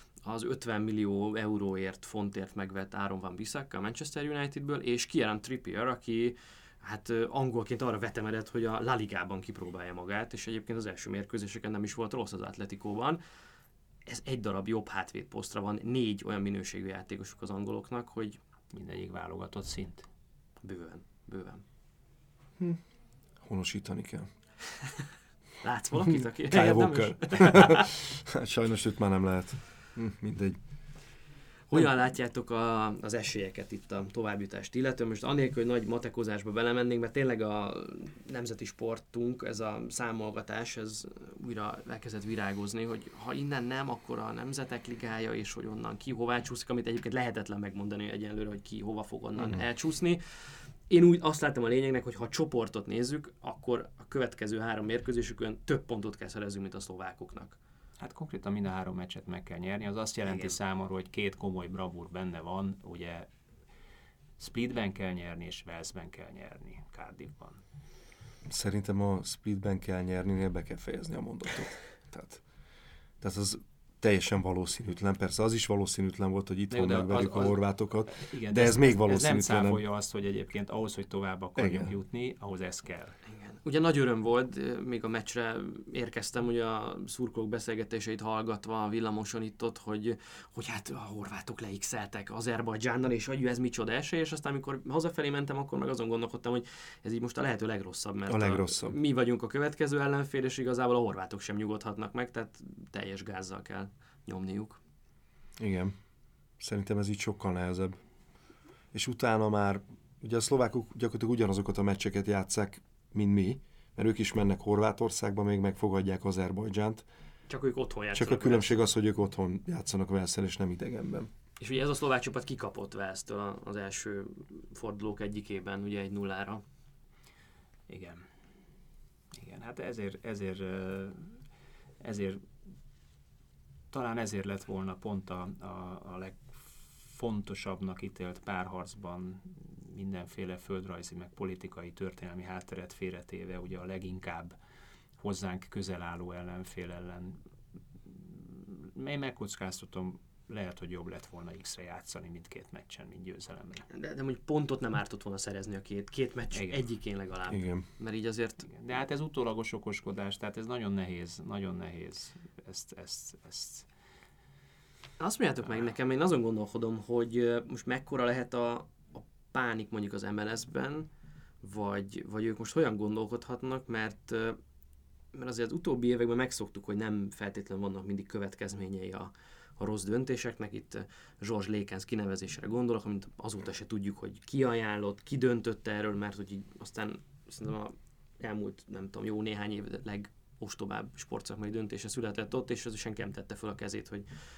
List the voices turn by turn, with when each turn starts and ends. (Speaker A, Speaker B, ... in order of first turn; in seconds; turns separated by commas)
Speaker A: 0.2-13.2, Speaker A: 14.1-18.4, Speaker B: 18.7-20.1, Speaker A: 20.6-21.6, Speaker C: 23.4-24.3, Speaker A: 25.6-27.9, Speaker C: 26.1-30.6, Speaker A: 31.7-57.6, Speaker B: 58.0-63.3, Speaker A: 60.3-60.5, Speaker B: 64.4-67.6, Speaker C: 68.5-72.4, Speaker C: 73.2-79.8, Speaker B: 76.7-83.2, Speaker C: 81.6-81.9, Speaker A: 83.3-104.8, Speaker C: 98.3-99.0, Speaker C: 105.6-106.0, Speaker C: 106.6-108.0, Speaker C: 108.9-117.1, Speaker A: 117.5-118.9, Speaker C: 118.1-121.3, Speaker A: 121.6-126.6, Speaker B: 127.9-128.3, Speaker B: 129.3-131.4, Speaker B: 132.0-132.4, Speaker B: 133.9-144.6, Speaker B: 145.2-147.4, Speaker B: 148.1-153.8, Speaker A: 153.9-158.7, Speaker B: 156.5-156.8, Speaker C: 157.5-157.9, Speaker B: 158.6-163.9, Speaker A: 165.2-171.1, Speaker A: 171.6-174.6, Speaker A: 175.3-194.3